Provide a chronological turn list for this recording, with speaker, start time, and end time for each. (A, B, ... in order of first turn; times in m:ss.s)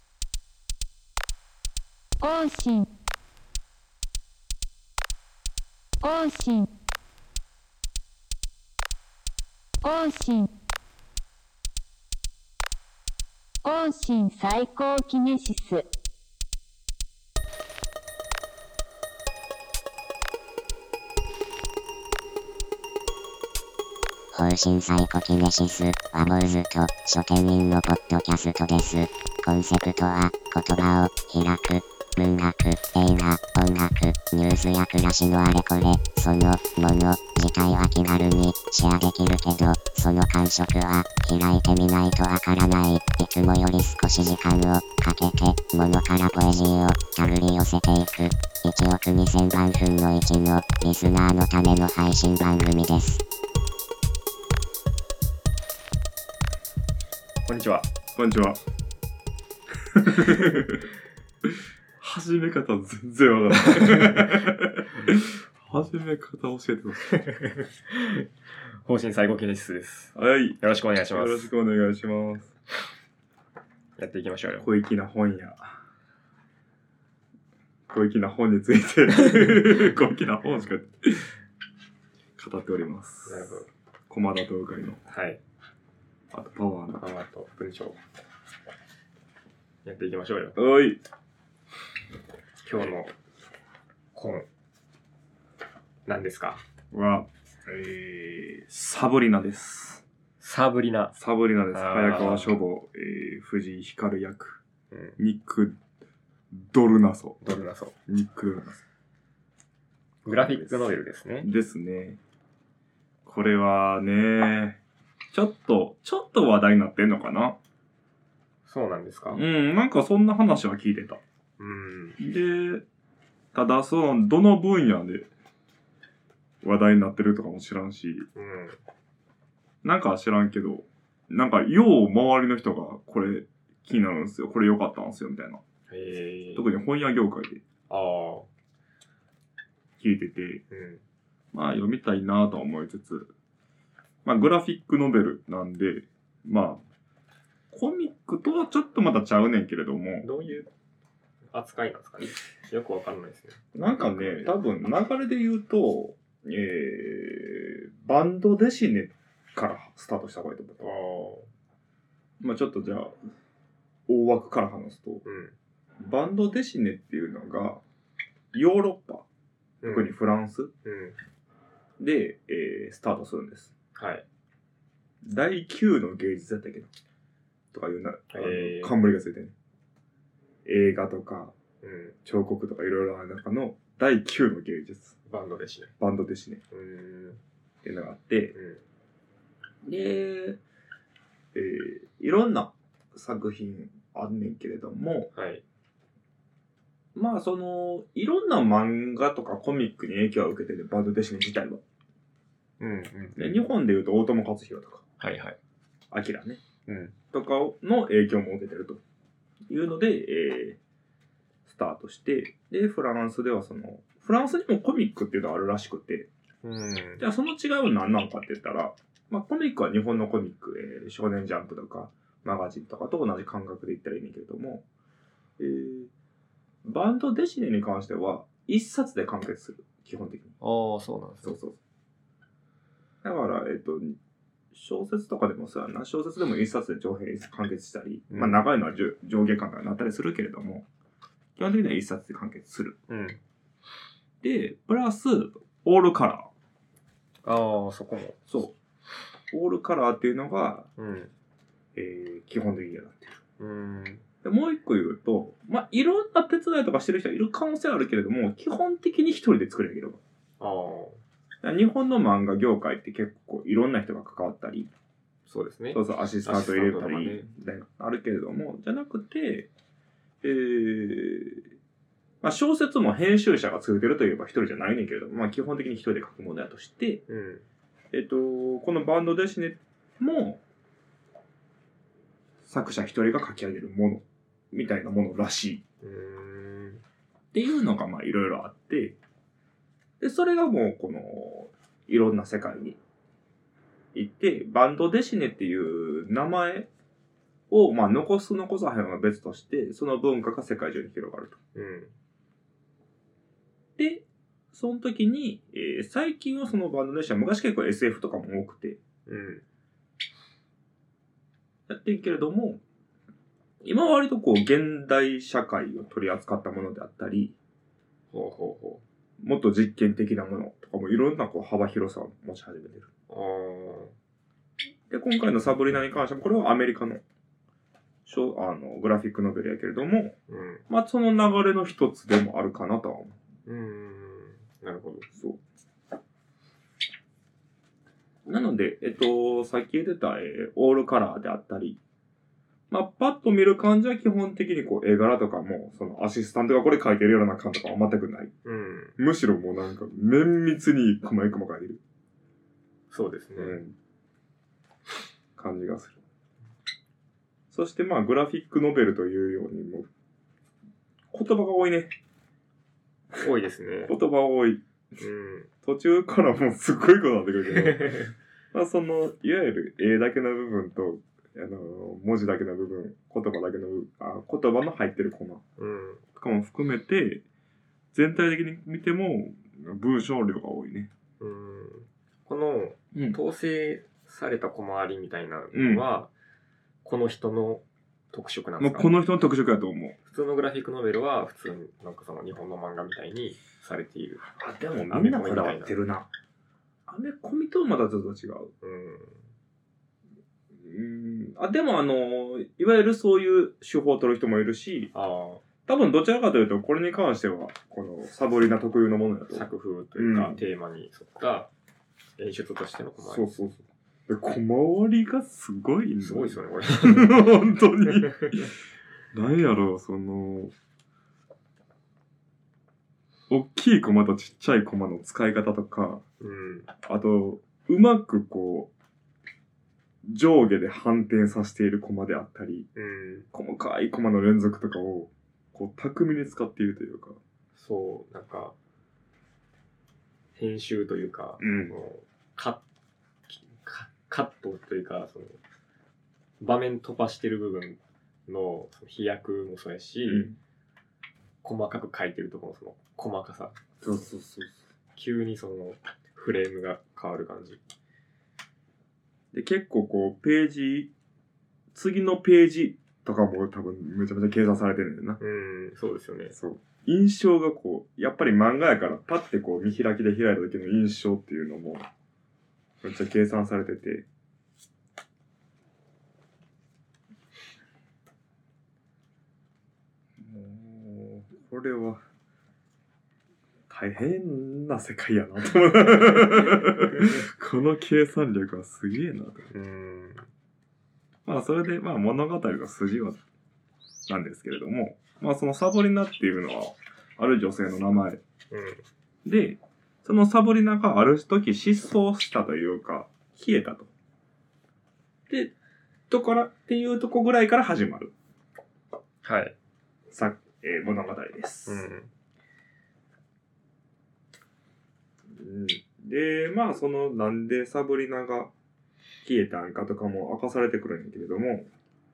0:02.2-0:02.9 A
0:06.0-0:06.7 A
0:09.8-0:10.5 A
0:13.6-0:15.8 A
0:24.3-0:53.2 B
0:57.4-0:57.9 C
0:58.1-0:58.6 D
0:59.9-1:00.9 D
1:00.3-1:00.6 C
1:01.4-1:07.1 D
1:03.7-1:04.1 C
1:07.0-1:08.3 C
1:08.8-1:11.5 C
1:10.2-1:12.5 D
1:14.0-1:14.7 C
1:14.6-1:15.8 D
1:17.9-1:21.3 D
1:19.3-1:19.6 C
1:22.4-1:23.6 D
1:23.3-1:23.7 C
1:24.1-1:25.0 D
1:25.1-1:25.4 C
1:26.3-1:27.0 D
1:27.0-1:28.0 C
1:29.8-1:30.6 C
1:30.6-1:31.0 D
1:32.6-1:33.1 C
1:34.1-1:34.5 C
1:36.1-1:36.6 C
1:36.9-1:40.0 D
1:40.4-1:41.2 C
1:41.2-1:44.6 D
1:41.7-1:42.6 C
1:44.9-1:45.2 C
1:45.2-1:45.8 D
1:46.5-1:47.4 D
1:47.4-1:48.0 C
1:48.1-1:48.8 D
1:50.2-1:51.5 C
1:50.3-1:52.2 D
1:53.2-1:54.8 D
1:55.3-1:57.6 D
1:58.7-1:59.4 C
1:59.3-2:01.2 D
2:01.6-2:02.2 C
2:02.2-2:02.8 D
2:03.5-2:05.3 D
2:06.6-2:08.3 D
2:08.4-2:08.8 C
2:09.8-2:15.6 D
2:15.9-2:16.7 C
2:16.6-2:17.6 D
2:17.9-2:18.5 C
2:20.0-2:20.6 D
2:20.7-2:21.0 C
2:21.5-2:23.3 D
2:24.2-2:26.8 D
2:27.7-2:30.6 D
2:30.2-2:30.7 C
2:31.5-2:34.5 C
2:33.8-2:41.0 D
2:40.8-2:41.5 C
2:42.4-2:43.1 D
2:44.1-2:45.2 D
2:45.2-2:45.6 C
2:46.0-2:47.8 D
2:48.5-2:49.2 D
2:49.8-2:50.1 C
2:49.8-2:50.7 D
2:50.8-2:51.2 C
2:52.0-2:53.7 D
2:54.0-2:54.2 C
2:55.2-2:56.9 D
2:57.7-2:59.5 D
2:58.3-2:59.0 C
3:00.6-3:01.5 D
3:01.8-3:02.2 C
3:02.2-3:05.2 D
3:05.3-3:05.9 C
3:06.0-3:06.6 D
3:06.7-3:07.4 C
3:07.8-3:08.5 D
3:08.5-3:08.8 C
3:09.8-3:10.6 D
3:11.5-3:15.3 D
3:15.3-3:15.6 C
3:17.2-3:21.8 D
3:22.8-3:23.6 C
3:23.4-3:25.0 D
3:25.2-3:25.6 C
3:26.1-3:26.6 D
3:26.9-3:27.2 C
3:27.3-3:29.0 D
3:29.7-3:30.8 D
3:31.7-3:36.3 D
3:36.6-3:37.2 C
3:37.2-3:44.8 D
3:45.6-3:46.1 D
3:46.8-3:50.5 D
3:50.6-3:51.6 C
3:51.4-3:51.8 D
3:53.2-3:54.2 D
3:54.7-4:00.8 D
3:58.3-3:58.7 C
4:01.6-4:03.0 D
4:03.1-4:03.4 C
4:04.4-4:06.5 D
4:07.4-4:08.4 C
4:08.5-4:08.7 D
4:09.5-4:10.9 D
4:11.0-4:11.3 C
4:12.0-4:13.4 D
4:13.6-4:14.2 C
4:14.4-4:20.2 D
4:20.6-4:21.2 C
4:21.6-4:24.9 D
4:25.5-4:27.5 C
4:25.9-4:29.7 D
4:30.4-4:31.6 D
4:32.4-4:37.2 D
4:37.3-4:37.6 C
4:38.1-4:40.6 D
4:42.6-4:45.8 D
4:46.0-4:47.0 C
4:47.5-4:49.2 D
4:50.2-4:53.0 D
4:54.1-4:56.9 D
4:57.7-5:01.6 D
5:01.8-5:02.1 C
5:04.0-5:09.0 D
5:09.3-5:09.6 C
5:11.9-5:12.8 D
5:13.8-5:17.5 D
5:18.3-5:19.0 C
5:19.4-5:23.1 D
5:23.3-5:24.2 C
5:25.1-5:27.2 D
5:28.3-5:30.4 D
5:30.5-5:30.8 C
5:30.9-5:33.4 D
5:33.7-5:35.3 C
5:38.5-5:42.0 D
5:42.9-5:48.5 D
5:48.6-5:49.2 C
5:49.2-5:52.0 D
5:53.1-5:53.8 C
5:53.6-5:54.0 D
5:55.6-5:56.2 D
5:57.7-6:00.1 D
6:01.3-6:02.1 D
6:03.4-6:04.1 C
6:04.1-6:04.8 D
6:05.2-6:05.7 C
6:05.8-6:08.2 D
6:07.7-6:08.3 C
6:08.7-6:15.6 D
6:15.8-6:16.2 C
6:16.4-6:17.4 D
6:18.1-6:21.1 D
6:21.4-6:26.3 C
6:25.7-6:26.0 D
6:27.0-6:29.1 C
6:28.8-6:30.2 D
6:30.3-6:34.5 C
6:34.6-6:36.3 D
6:35.1-6:36.0 C
6:37.1-6:38.7 D
6:38.8-6:39.4 C
6:40.7-6:45.1 D
6:45.1-6:45.6 C
6:45.9-6:50.6 D
6:49.5-6:51.7 C
6:52.4-6:53.7 C
6:53.2-6:58.7 D
6:56.2-6:57.5 C
6:58.1-6:58.6 C
6:59.3-7:00.7 D
7:03.5-7:06.2 D
7:06.4-7:06.9 C
7:07.0-7:08.9 D
7:10.2-7:12.9 D
7:13.0-7:13.5 C
7:13.5-7:17.4 D
7:17.7-7:18.8 C
7:20.6-7:22.8 C
7:21.6-7:22.0 D
7:23.5-7:25.6 C
7:26.6-7:30.5 C
7:30.3-7:30.6 D
7:31.6-7:33.8 C
7:34.0-7:34.8 D
7:35.2-7:37.8 C
7:39.5-7:41.1 D
7:41.9-7:45.4 D
7:45.4-7:46.6 C
7:46.5-7:52.1 D
7:53.0-7:54.2 D
8:00.4-8:02.2 D
8:03.9-8:09.7 D
8:06.8-8:07.4 C
8:09.7-8:10.5 C
8:11.5-8:13.4 D
8:14.3-8:18.4 D
8:18.7-8:19.0 C
8:19.4-8:24.1 D
8:26.3-8:28.3 D
8:29.4-8:29.8 C
8:30.3-8:32.1 D
8:31.9-8:32.3 C
8:35.5-8:38.7 D
8:39.4-8:41.9 D